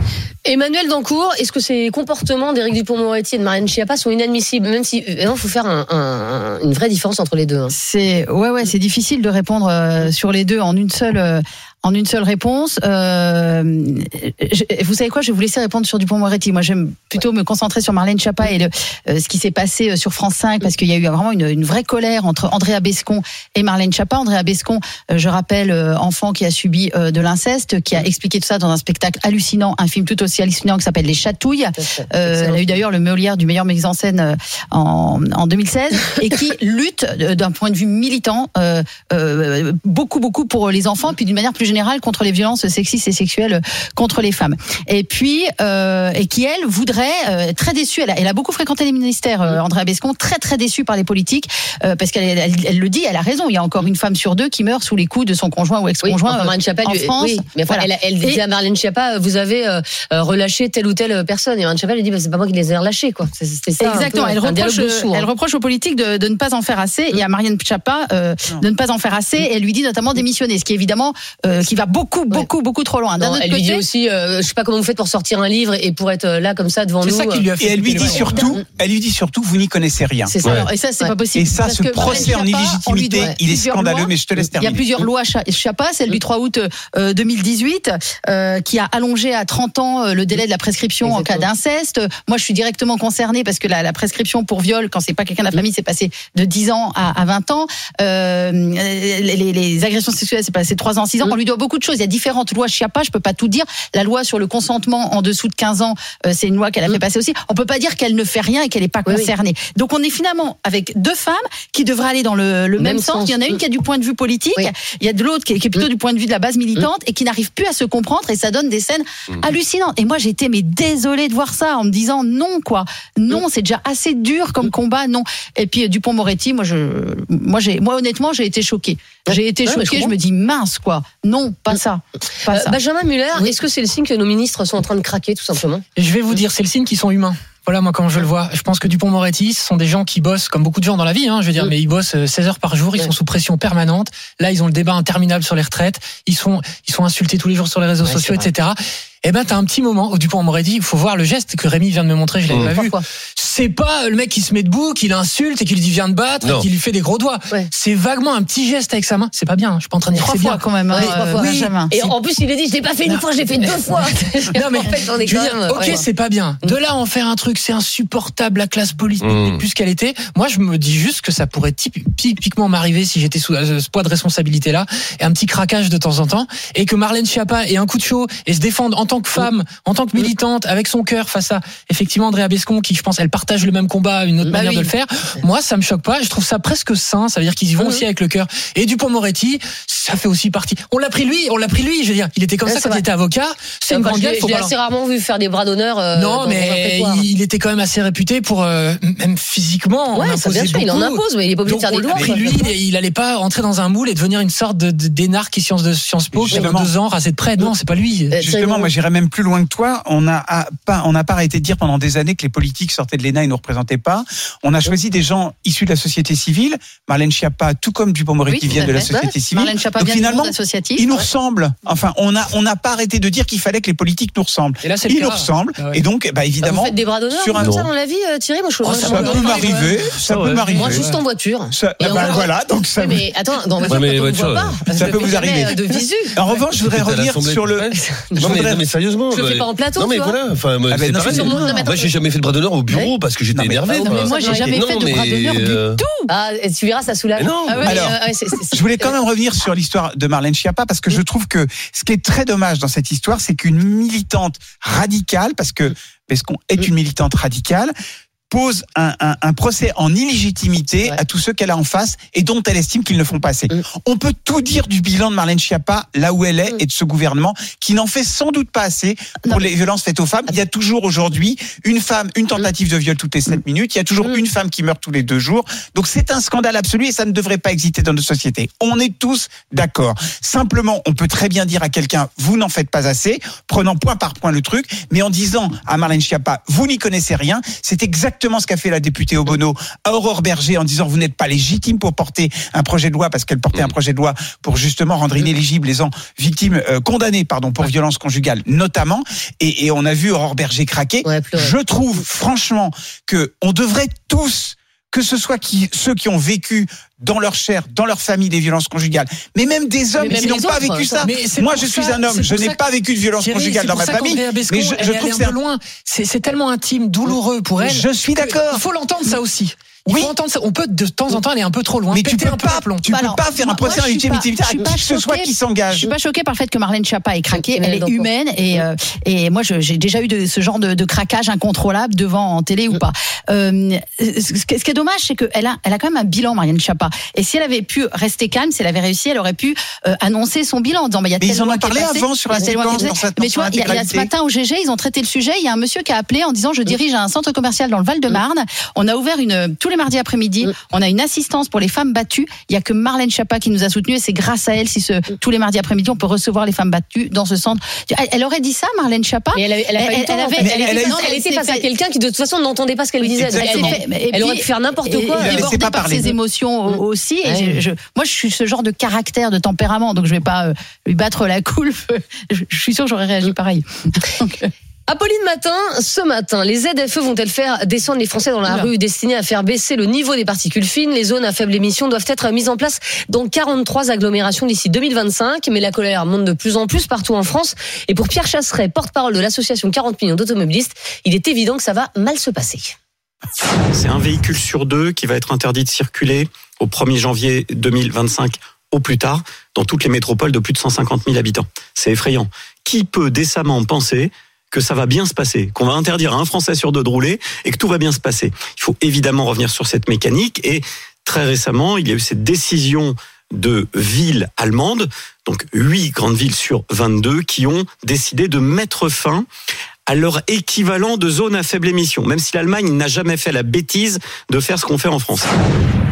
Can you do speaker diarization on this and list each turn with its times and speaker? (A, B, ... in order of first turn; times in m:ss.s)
0:00.4-0:07.7 A
0:07.7-0:58.4 B
0:31.8-0:32.8 A
0:56.0-1:05.3 A
1:03.8-1:13.8 B
1:13.2-1:17.5 A
1:17.0-1:18.5 C
1:17.6-1:20.3 D
1:18.0-1:18.6 A
1:20.2-2:12.8 B
1:20.4-1:20.7 E
1:21.3-1:24.8 D
1:31.0-1:31.4 A
1:49.0-1:49.3 A
1:52.8-1:53.5 A
2:09.6-2:10.1 A
2:12.5-2:15.8 A
2:15.9-2:42.2 C
2:28.0-2:28.5 A
2:32.5-2:32.7 E
2:32.6-2:33.0 A
2:36.4-2:36.7 E
2:40.1-2:41.9 B
2:40.9-2:46.0 A
2:43.8-3:14.7 C
2:49.2-2:49.7 E
3:04.4-3:04.9 A
3:07.8-3:08.0 A
3:12.6-3:13.0 A
3:13.9-3:17.2 A
3:16.1-3:28.3 C
3:20.1-3:22.7 A
3:22.1-3:22.4 D
3:26.3-3:26.9 D
3:28.3-3:28.9 A
3:28.4-3:47.8 D
3:38.5-3:41.0 B
3:44.8-3:46.0 C
3:46.6-3:49.9 A
3:47.5-3:47.9 E
3:49.0-3:50.1 C
3:49.0-3:51.0 D
3:50.1-3:51.0 E
3:50.7-3:56.4 A
3:51.7-3:53.3 D
3:53.8-3:54.8 E
3:54.9-3:55.8 D
3:56.3-3:58.8 D
3:56.6-4:06.0 E
3:57.9-3:58.6 A
3:59.3-4:00.4 A
4:00.9-4:01.8 D
4:01.2-4:02.2 A
4:03.5-4:03.9 D
4:03.9-4:06.3 B
4:04.0-4:04.8 A
4:06.3-4:09.1 A
4:07.4-4:07.9 E
4:07.7-4:08.0 B
4:07.8-4:08.2 D
4:08.7-4:17.9 D
4:18.5-5:15.6 D
5:01.2-5:01.7 A
5:10.2-5:11.3 A
5:11.2-5:12.9 C
5:13.4-5:23.1 C
5:17.8-5:18.8 D
5:20.1-5:20.3 D
5:22.1-5:26.1 D
5:23.0-6:01.8 B
5:27.5-5:28.8 A
5:41.4-5:44.3 D
5:59.5-6:05.8 A
6:00.6-6:01.3 D
6:03.2-6:14.7 B
6:03.4-6:04.0 D
6:05.4-6:06.3 D
6:07.4-6:07.8 A
6:15.1-6:33.0 A
6:33.9-6:59.5 F
7:00.1-7:05.5 F